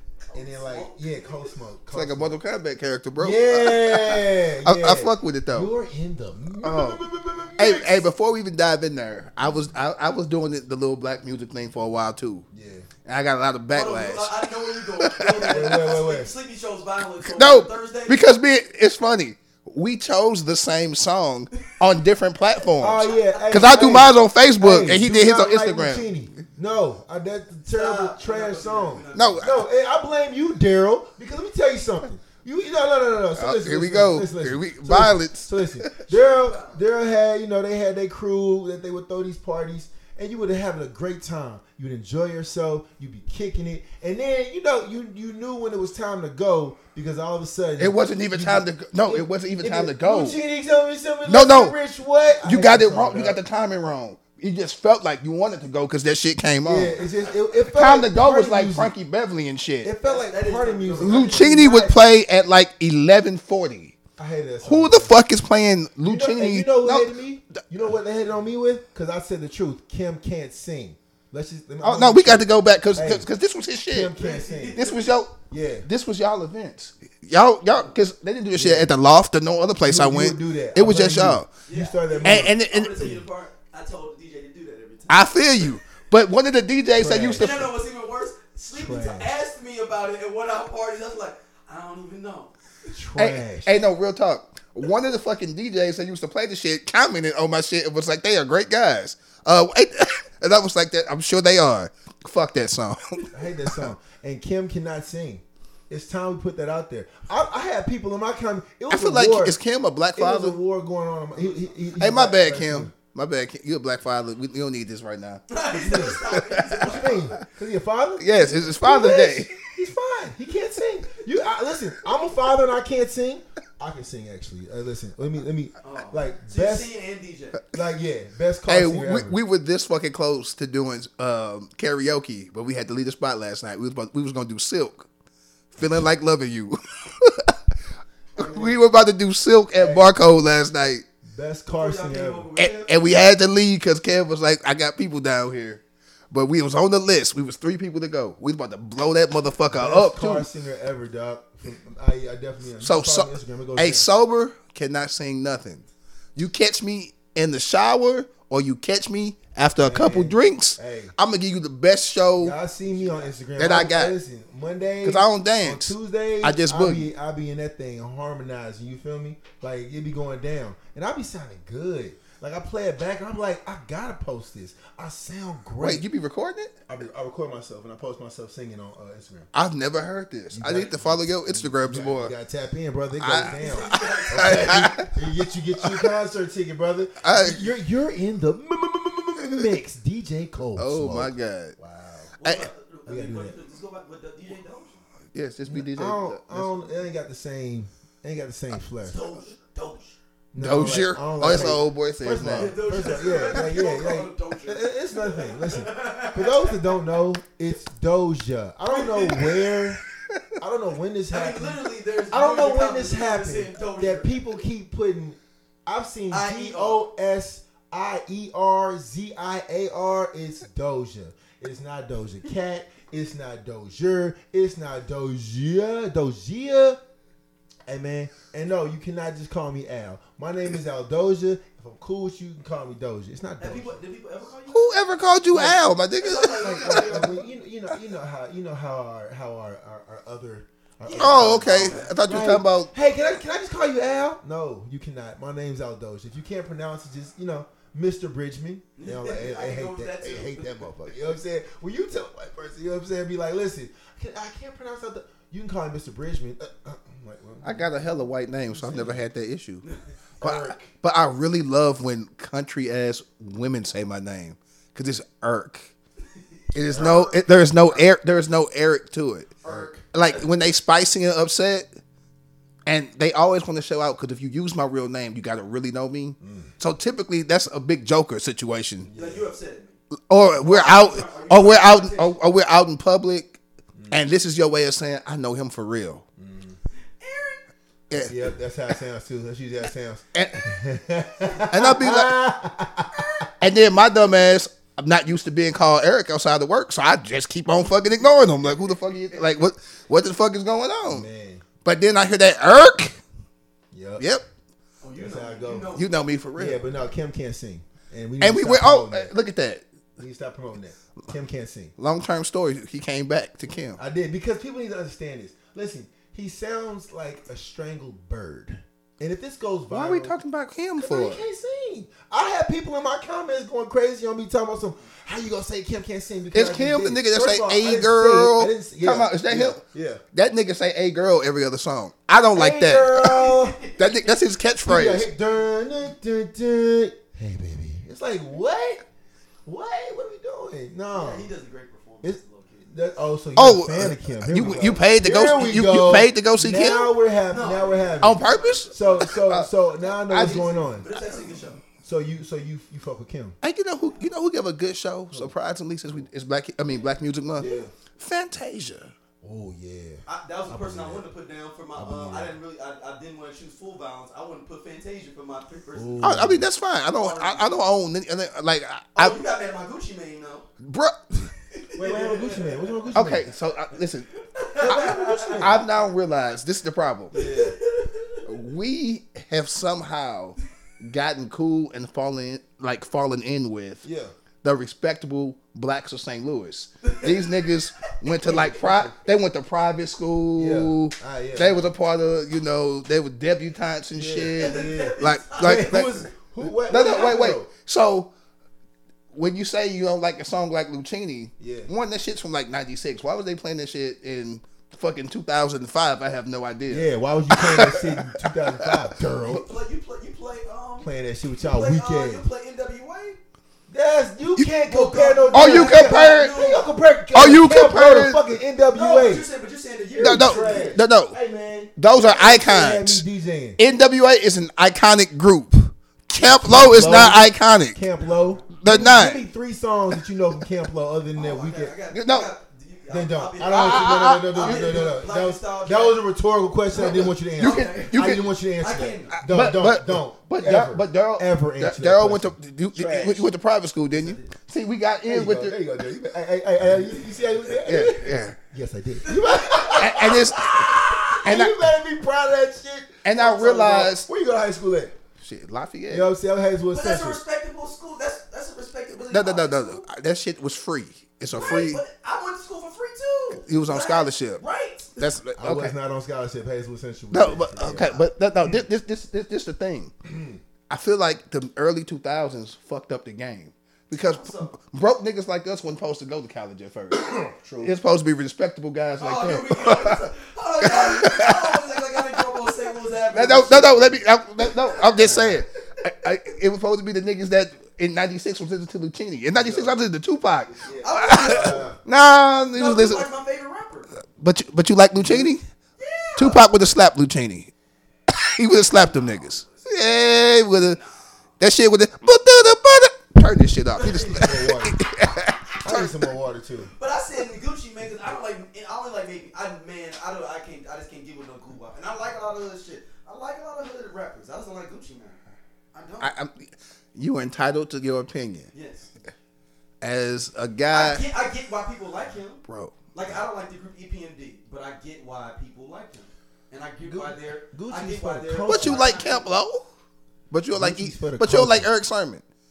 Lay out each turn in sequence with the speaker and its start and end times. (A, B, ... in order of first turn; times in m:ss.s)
0:00.3-0:01.4 A
0:00.3-0:02.3 B
0:01.9-0:05.7 C
0:03.2-0:08.1 B
0:06.6-0:07.0 C
0:07.6-0:12.4 C
0:12.5-0:12.9 B
0:13.0-0:15.9 C
0:13.7-0:18.2 A
0:15.5-0:16.3 B
0:17.2-0:26.2 C
0:22.8-0:53.4 B
0:23.0-0:23.6 A
0:27.7-0:29.7 A
0:29.1-0:29.6 C
0:33.4-0:36.0 C
0:36.1-0:36.8 A
0:47.8-0:50.4 C
0:51.3-0:51.8 C
0:52.4-0:57.0 C
0:56.6-0:58.9 B
0:57.7-0:59.9 C
0:59.8-1:02.0 B
1:00.0-1:01.5 A
1:01.0-1:04.0 C
1:04.2-1:05.1 B
1:04.6-1:07.1 C
1:06.0-1:13.3 B
1:11.8-1:14.1 C
1:13.9-1:14.8 B
1:14.2-1:15.0 A
1:14.8-1:21.5 C
1:15.5-1:15.9 B
1:17.6-1:17.9 A
1:18.5-1:18.9 B
1:19.8-1:22.5 B
1:21.7-1:25.7 A
1:22.2-1:23.2 C
1:25.1-1:27.7 C
1:26.9-1:27.7 B
1:27.4-1:33.0 A
1:28.7-1:29.3 B
1:32.9-1:33.7 B
1:33.2-1:43.9 C
1:43.3-1:49.6 B
1:48.9-1:50.6 C
1:50.2-1:52.9 B
1:52.0-1:57.0 C
1:55.5-1:57.3 A
1:55.7-1:56.3 B
1:56.8-2:06.9 B
1:58.2-1:59.7 C
2:05.8-2:07.6 A
2:07.7-2:09.4 B
2:08.7-2:15.1 C
2:15.7-2:17.6 C
2:18.4-2:21.0 C
2:18.4-2:18.7 B
2:19.7-2:20.1 B
2:21.2-2:22.5 B
2:21.8-2:23.2 A
2:22.6-2:30.5 C
2:29.7-2:34.1 B
2:32.8-2:35.8 C
2:36.4-2:42.5 C
2:39.8-2:41.1 B
2:42.4-2:56.0 B
2:42.8-2:43.3 A
2:43.6-2:44.1 C
2:45.0-2:47.1 C
2:55.8-2:56.8 C
2:56.9-2:59.5 B
2:59.5-3:02.3 C
3:00.5-3:12.3 B
3:03.2-3:05.1 C
3:03.4-3:04.9 A
3:05.8-3:06.1 C
3:07.2-3:07.7 C
3:10.8-3:11.8 C
3:12.4-3:15.0 A
3:13.1-3:13.6 B
3:15.3-3:16.9 C
3:15.6-3:19.2 B
3:19.0-3:20.2 A
3:20.5-3:30.0 B
3:20.6-3:22.7 C
3:22.4-3:27.0 A
3:28.9-3:29.6 A
3:30.6-3:47.0 B
3:31.3-3:34.4 A
3:36.3-3:37.0 A
3:47.8-3:54.0 B
3:53.6-3:55.0 A
3:54.7-3:57.2 C
3:55.5-3:55.8 B
3:56.2-3:57.4 A
3:56.6-4:18.1 B
4:01.0-4:02.2 A
4:01.2-4:02.9 C
4:09.0-4:10.8 A
4:17.6-4:19.8 C
4:18.7-4:19.2 B
4:20.4-4:20.9 B
4:20.4-4:25.9 C
4:26.3-4:27.3 A
4:26.7-4:29.6 C
4:26.9-4:28.0 B
4:29.6-4:30.1 A
4:29.6-4:30.0 B
4:30.1-4:31.9 C
4:32.8-4:39.1 C
4:36.4-4:36.7 B
4:39.0-4:39.5 B
4:39.1-4:40.0 A
4:40.3-4:43.6 C
4:40.6-4:42.3 A
4:44.0-4:44.2 B
4:44.1-4:46.2 C
4:46.4-4:46.8 B
4:47.2-4:47.6 A
4:48.1-4:48.4 C
4:48.2-4:53.5 B
4:50.3-4:50.6 C
4:51.7-4:52.4 C
4:53.1-4:53.5 A
4:53.6-5:01.3 C
4:58.6-4:59.6 A
5:01.0-5:01.6 B
5:01.8-5:03.2 C
5:03.9-5:04.3 B
5:05.0-5:06.1 A
5:05.2-5:05.9 B
5:05.9-5:06.8 C
5:06.5-5:09.3 B
5:08.4-5:09.8 C
5:10.2-5:11.9 B
5:12.0-5:14.0 C
5:14.0-5:20.3 B
5:19.9-5:21.4 C
5:21.0-5:30.2 B
5:26.5-5:29.8 C
5:30.3-5:35.3 C
5:32.5-5:33.8 B
5:33.2-5:34.3 A
5:34.8-5:39.0 B
5:39.6-5:41.5 B
5:41.1-5:42.9 A
5:42.2-5:51.0 B
5:43.6-5:47.1 C
5:47.5-5:49.3 A
5:48.2-5:51.4 C
5:50.1-5:51.8 A
5:52.0-5:53.6 B
5:53.6-5:59.1 C
5:57.6-5:57.9 B
5:59.4-6:01.2 B
6:00.2-6:06.4 A
6:01.9-6:02.5 B
6:05.9-6:06.6 B
6:06.2-6:09.4 C
6:07.1-6:07.7 A
6:09.2-6:10.7 A
6:10.8-6:11.5 C
6:11.7-6:13.1 A
6:12.0-6:13.4 B
6:13.1-6:14.3 C
6:14.4-6:15.8 A
6:14.8-6:17.5 C
6:14.9-6:15.8 B
6:17.3-6:18.4 A
6:17.3-6:17.8 B
6:18.4-6:24.1 C
6:24.0-6:24.3 B
6:24.6-6:36.3 C
6:27.0-6:28.8 A
6:28.4-6:29.1 B
6:30.6-6:31.9 B
6:34.1-6:37.7 B
6:34.6-6:36.3 A
6:36.9-6:38.3 C
6:36.9-6:37.3 A
6:39.3-6:49.5 C
6:41.6-6:41.9 B
6:46.9-6:49.6 B
6:49.4-6:53.4 A
6:51.0-6:52.4 B
6:53.9-6:59.4 B
6:54.9-6:56.9 A
6:55.5-6:56.6 C
6:57.3-6:58.5 C
6:58.9-7:00.9 A
7:00.2-7:03.8 B
7:00.2-7:01.4 C
7:02.0-7:03.2 C
7:03.8-7:08.0 C
7:06.4-7:11.9 B
7:08.2-7:08.6 A
7:08.8-7:09.4 C
7:11.3-7:16.2 A
7:12.1-7:12.5 C
7:13.1-7:23.5 B
7:13.6-7:15.1 C
7:16.9-7:18.2 A
7:16.9-7:18.5 C
7:18.8-7:19.4 A
7:19.4-7:25.8 C
7:24.1-7:24.5 A
7:25.3-7:35.1 B
7:27.8-7:28.6 C
7:29.2-7:30.2 A
7:29.9-7:31.9 C
7:33.2-7:34.3 C
7:35.4-7:36.3 C
7:36.1-7:37.4 B
7:36.9-7:40.1 A
7:39.3-7:42.0 C
7:41.5-7:41.9 B
7:41.5-7:45.2 A
7:43.6-7:44.6 C
7:45.2-7:45.9 C
7:45.6-7:48.8 B
7:47.3-7:50.1 C
7:50.2-7:50.6 B
7:50.9-8:00.3 C
7:54.2-7:54.7 A
7:57.1-7:57.9 B
7:59.2-8:05.5 A
8:00.8-8:01.8 C
8:03.3-8:13.3 C
8:05.2-8:05.6 B
8:09.5-8:10.0 B
8:10.7-8:12.0 B
8:11.0-8:11.9 A
8:12.7-8:14.1 A
8:14.4-8:15.6 C
8:15.2-8:15.5 B
8:16.0-8:16.6 A
8:16.4-8:17.7 C
8:18.3-8:21.0 C
8:18.9-8:19.8 A
8:20.8-8:21.2 A
8:21.6-8:26.2 C
8:24.0-8:24.5 A
8:24.3-8:25.0 B
8:25.8-8:26.9 B
8:26.9-8:35.4 A
8:35.9-8:36.3 A
8:36.2-8:38.7 C
8:38.7-8:39.1 A
8:40.0-8:41.2 C
8:40.9-8:49.4 A
8:42.7-8:43.1 C
8:47.0-8:49.2 B
8:48.7-8:49.8 C
8:50.5-8:52.4 C
8:50.7-8:51.9 B